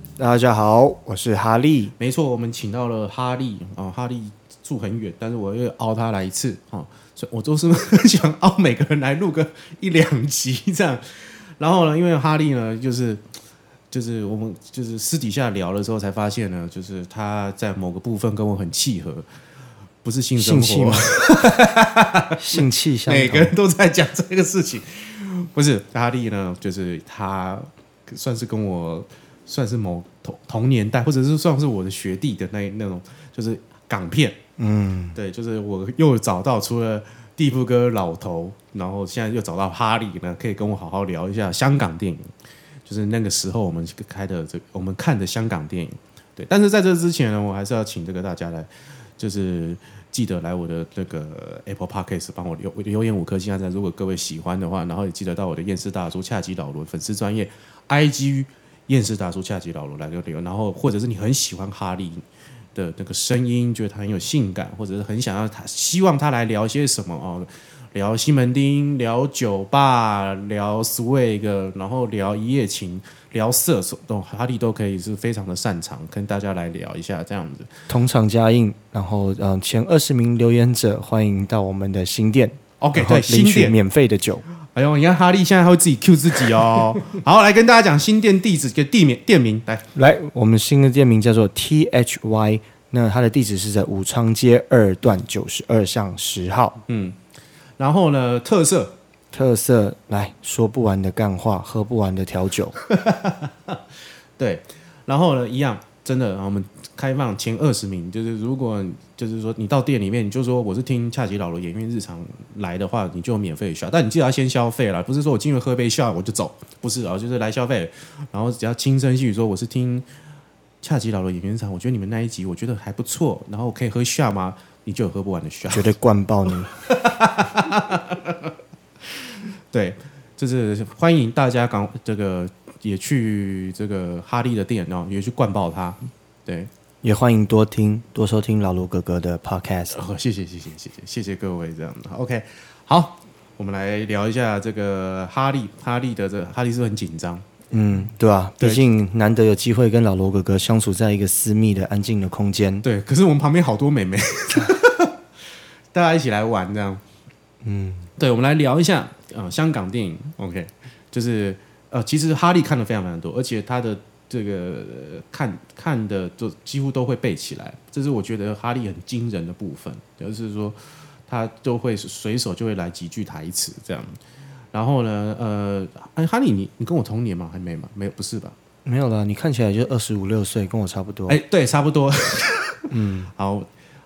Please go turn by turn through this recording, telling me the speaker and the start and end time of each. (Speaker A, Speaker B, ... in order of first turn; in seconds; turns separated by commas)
Speaker A: 0.2-1.9, Speaker B: 2.0-13.2, Speaker B: 13.9-19.2, Speaker B: 20.0-34.4, Speaker A: 20.4-21.6, Speaker A: 22.4-23.5, Speaker A: 34.6-35.2, Speaker B: 35.1-42.3, Speaker B: 42.9-62.2, Speaker B: 62.7-77.7, Speaker A: 77.9-84.4, Speaker B: 82.8-83.8, Speaker B: 84.7-89.8, Speaker A: 89.9-96.8, Speaker B: 96.9-97.2, Speaker B: 97.8-98.9, Speaker A: 99.3-102.7, Speaker B: 102.9-103.8, Speaker B: 104.4-120.0, Speaker B: 120.8-125.9, Speaker A: 125.7-126.7, Speaker B: 126.8-128.5, Speaker B: 129.7-136.7, Speaker A: 137.0-139.9, Speaker B: 139.9-147.4, Speaker A: 147.7-152.8, Speaker B: 152.8-155.2, Speaker B: 155.9-157.0, Speaker A: 157.6-158.1, Speaker B: 158.2-170.8, Speaker B: 171.3-174.2, Speaker B: 174.7-178.6, Speaker A: 178.8-181.4, Speaker B: 181.3-183.7, Speaker A: 182.9-183.3